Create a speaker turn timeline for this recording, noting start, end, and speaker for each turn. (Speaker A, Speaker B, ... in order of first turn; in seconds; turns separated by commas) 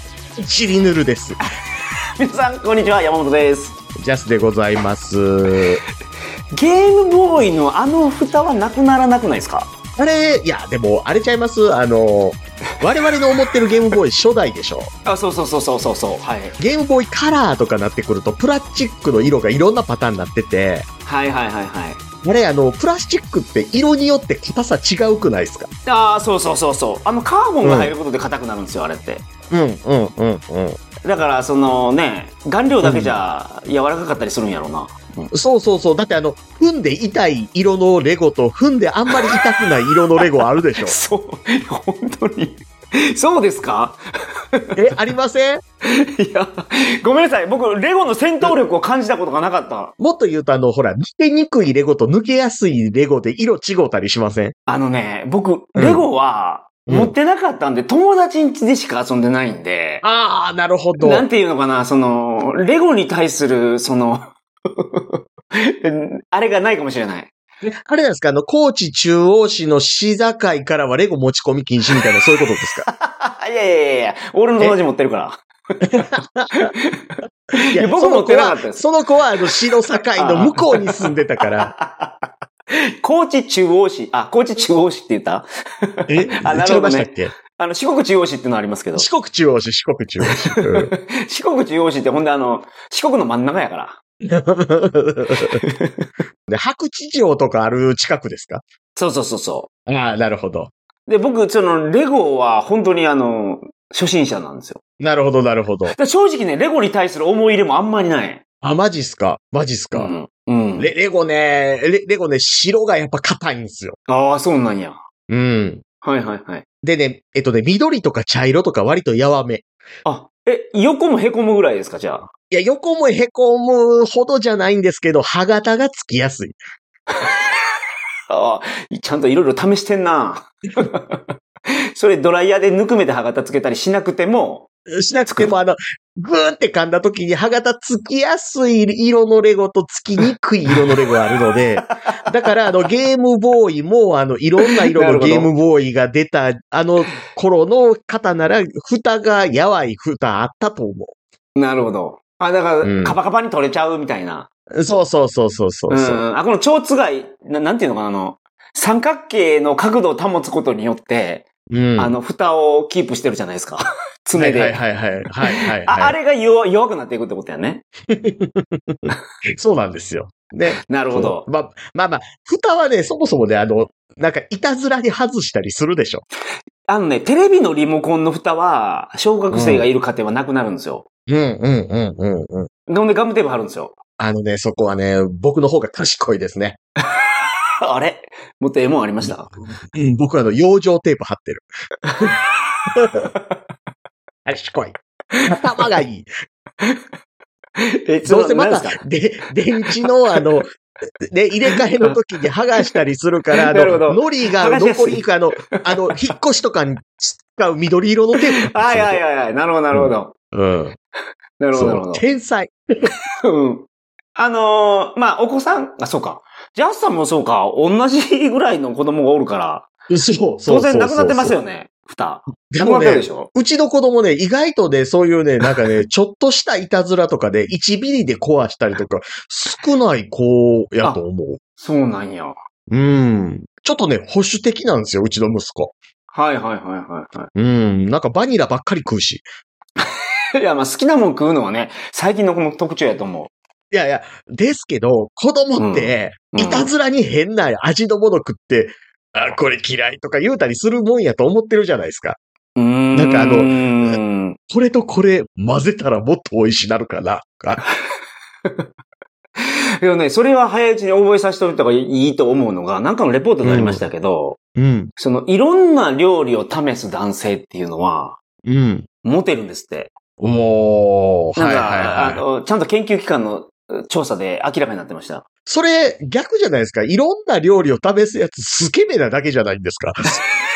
Speaker A: 0.4-1.4, Speaker B: 2.2-3.8, Speaker A: 4.0-5.8, Speaker B: 6.5-9.7, Speaker A: 10.0-14.9, Speaker B: 15.1-16.6, Speaker A: 16.6-20.9, Speaker B: 21.1-22.0, Speaker A: 22.2-25.7, Speaker B: 25.9-29.2, Speaker A: 27.6-27.9, Speaker A: 29.5-30.8, Speaker B: 31.0-35.3, Speaker A: 32.8-33.1, Speaker A: 35.3-41.0, Speaker B: 40.8-44.9, Speaker A: 44.7-45.6, Speaker B: 45.8-49.9, Speaker A: 50.0-54.5, Speaker B: 54.7-60.0, Speaker A: 55.8-56.0, Speaker A: 56.9-57.1, Speaker A: 60.0-61.2, Speaker B: 61.0-67.3, Speaker A: 67.6-72.9, Speaker B: 72.9-78.8, Speaker A: 76.0-76.7, Speaker A: 77.7-81.7, Speaker B: 80.2-89.1, Speaker A: 86.1-87.3, Speaker A: 89.0-90.9, Speaker B: 90.3-94.0, Speaker A: 94.3-95.6, Speaker B: 95.4-96.0, Speaker A: 96.5-98.6, Speaker B: 98.9-99.7, Speaker A: 99.9-100.7, Speaker B: 101.1-104.8, Speaker A: 105.0-106.0, Speaker B: 105.9-108.4, Speaker A: 108.6-110.1, Speaker B: 109.9-110.9, Speaker A: 110.8-114.0, Speaker B: 114.1-115.0, Speaker A: 115.3-115.8, Speaker B: 116.0-116.6, Speaker A: 116.8-119.6, Speaker B: 120.0-122.3, Speaker A: 122.5-126.6, Speaker B: 128.3-131.2, Speaker B: 131.9-134.7, Speaker A: 134.9-151.1, Speaker B: 141.8-142.6, Speaker B: 144.6-145.5, Speaker B: 151.6-154.5, Speaker A: 152.8-153.2, Speaker A: 154.7-156.2, Speaker B: 155.9-164.8, Speaker A: 161.7-162.2, Speaker A: 164.3-166.2, Speaker B: 165.5-167.8, Speaker A: 168.1-176.2, Speaker B: 170.8-171.4, Speaker B: 176.9-181.0, Speaker A: 179.5-179.9, Speaker A: 181.3-182.7, Speaker B: 182.9-184.0, Speaker A: 184.2-186.8, Speaker B: 187.0-189.5, Speaker A: 189.8-191.7, Speaker B: 192.1-193.6, Speaker A: 192.9-193.3, Speaker A: 194.4-196.3, Speaker B: 195.3-195.8, Speaker B: 197.8-199.0, Speaker A: 198.2-200.7, Speaker B: 199.9-200.6, Speaker A: 201.2-209.2, Speaker B: 201.7-202.2, Speaker B: 203.6-206.3, Speaker B: 208.3-210.3, Speaker A: 209.9-210.9, Speaker B: 211.6-212.2, Speaker A: 211.7-213.1, Speaker B: 213.4-219.9, Speaker A: 220.1-221.5, Speaker B: 220.7-223.5, Speaker A: 222.7-231.6, Speaker B: 231.8-232.6, Speaker A: 232.9-235.9, Speaker B: 236.3-237.5, Speaker A: 237.5-239.4, Speaker B: 240.0-243.5, Speaker A: 243.9-252.4, Speaker B: 245.8-246.9, Speaker B: 252.8-254.6, Speaker A: 253.1-254.2, Speaker A: 254.7-257.8, Speaker B: 259.6-264.6, Speaker A: 263.6-264.0, Speaker A: 264.8-265.1, Speaker B: 265.2-268.4, Speaker A: 268.6-269.1, Speaker B: 269.2-270.1, Speaker A: 270.4-272.4, Speaker B: 271.6-275.4, Speaker A: 275.6-280.2